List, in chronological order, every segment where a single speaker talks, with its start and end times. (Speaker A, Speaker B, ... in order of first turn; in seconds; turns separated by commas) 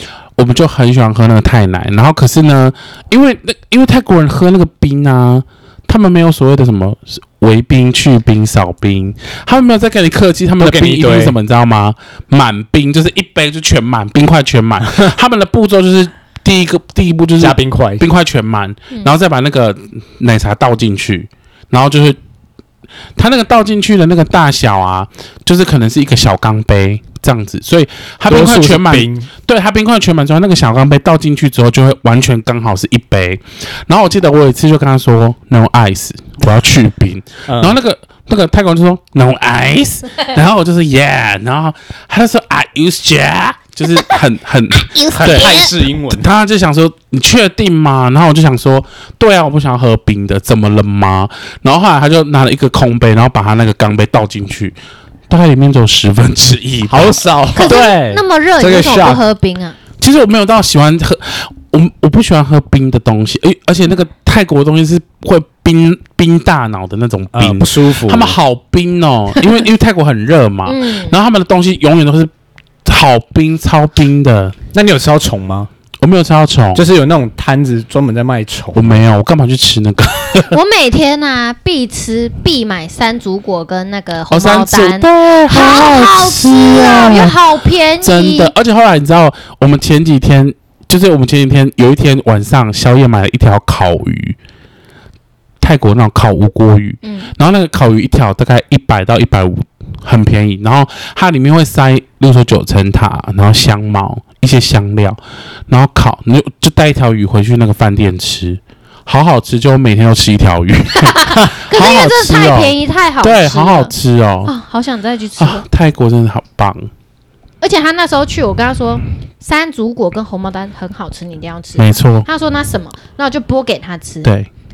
Speaker A: 0.3-22.2, Speaker B: 10.6-11.4, Speaker B: 17.4-18.0, Speaker A: 23.1-54.8, Speaker B: 28.3-29.3, Speaker B: 37.5-37.8, Speaker C: 44.7-45.7, Speaker B: 45.1-46.3, Speaker A: 55.3-58.2, Speaker B: 56.9-57.8, Speaker C: 57.5-59.8, Speaker B: 58.6-59.2, Speaker A: 60.0-72.3, Speaker B: 67.3-68.4, Speaker C: 70.7-71.2, Speaker A: 72.8-74.5, Speaker B: 74.7-75.7, Speaker A: 76.0-76.8, Speaker B: 76.7-79.0, Speaker A: 78.7-80.5, Speaker C: 80.5-88.5, Speaker A: 84.3-87.4, Speaker A: 88.0-94.4, Speaker A: 95.6-114.5, Speaker C: 97.0-97.3, Speaker C: 110.9-113.9, Speaker C: 114.5-115.6, Speaker A: 115.4-116.9, Speaker C: 117.6-124.3, Speaker A: 121.8-122.3, Speaker A: 124.2-124.5